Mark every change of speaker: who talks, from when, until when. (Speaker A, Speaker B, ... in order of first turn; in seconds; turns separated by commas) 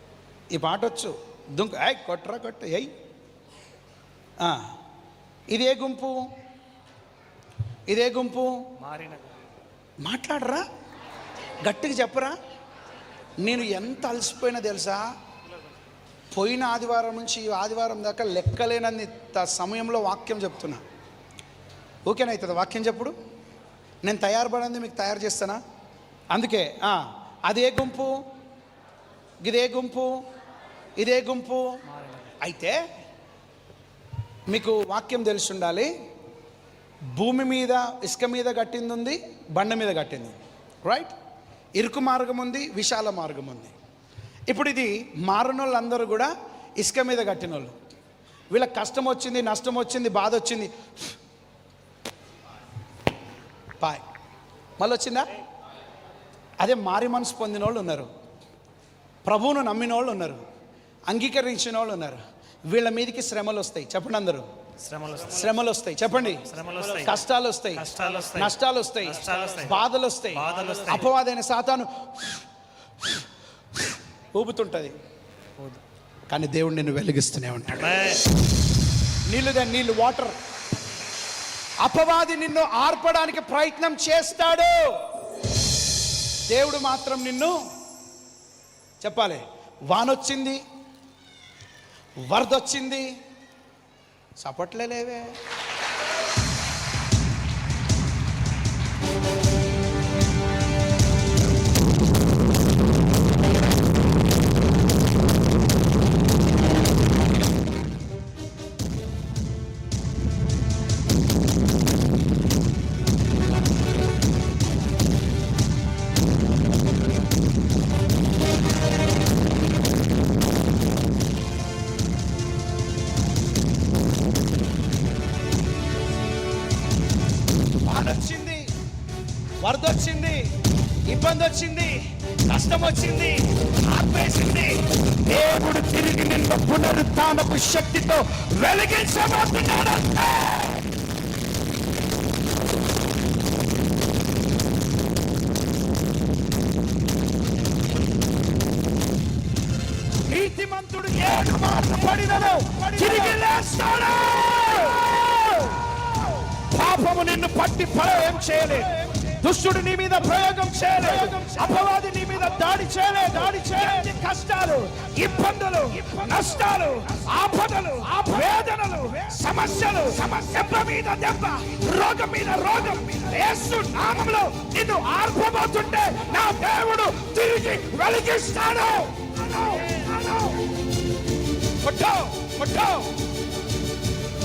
Speaker A: 0.5-2.9, Speaker A: 4.4-4.7, Speaker A: 5.5-6.3, Speaker A: 7.9-8.7, Speaker B: 8.8-9.3, Speaker A: 10.0-10.7, Speaker A: 11.6-12.4, Speaker A: 13.4-15.1, Speaker A: 16.3-20.8, Speaker A: 22.1-23.2, Speaker A: 24.0-25.6, Speaker A: 26.3-28.2, Speaker A: 29.4-30.2, Speaker A: 31.0-32.8, Speaker A: 34.5-35.9, Speaker A: 37.1-41.1, Speaker A: 41.8-43.8, Speaker A: 44.5-47.8, Speaker A: 48.5-50.7, Speaker A: 54.8-55.4, Speaker A: 56.6-58.1, Speaker A: 59.2-60.5, Speaker A: 61.1-64.5, Speaker B: 64.8-65.4, Speaker A: 65.2-66.5, Speaker B: 66.4-67.2, Speaker A: 67.0-72.4, Speaker B: 67.8-68.5, Speaker B: 69.1-69.8, Speaker B: 70.4-71.0, Speaker A: 74.3-75.0, Speaker A: 76.3-78.1, Speaker B: 77.8-78.2, Speaker A: 79.3-80.4, Speaker A: 81.8-85.1, Speaker A: 86.5-87.6, Speaker A: 89.0-90.6, Speaker A: 92.3-93.1, Speaker A: 94.4-95.4, Speaker A: 127.8-128.7, Speaker A: 129.6-130.5, Speaker A: 131.1-140.9, Speaker A: 150.3-155.9, Speaker A: 156.6-180.7, Speaker A: 181.8-183.1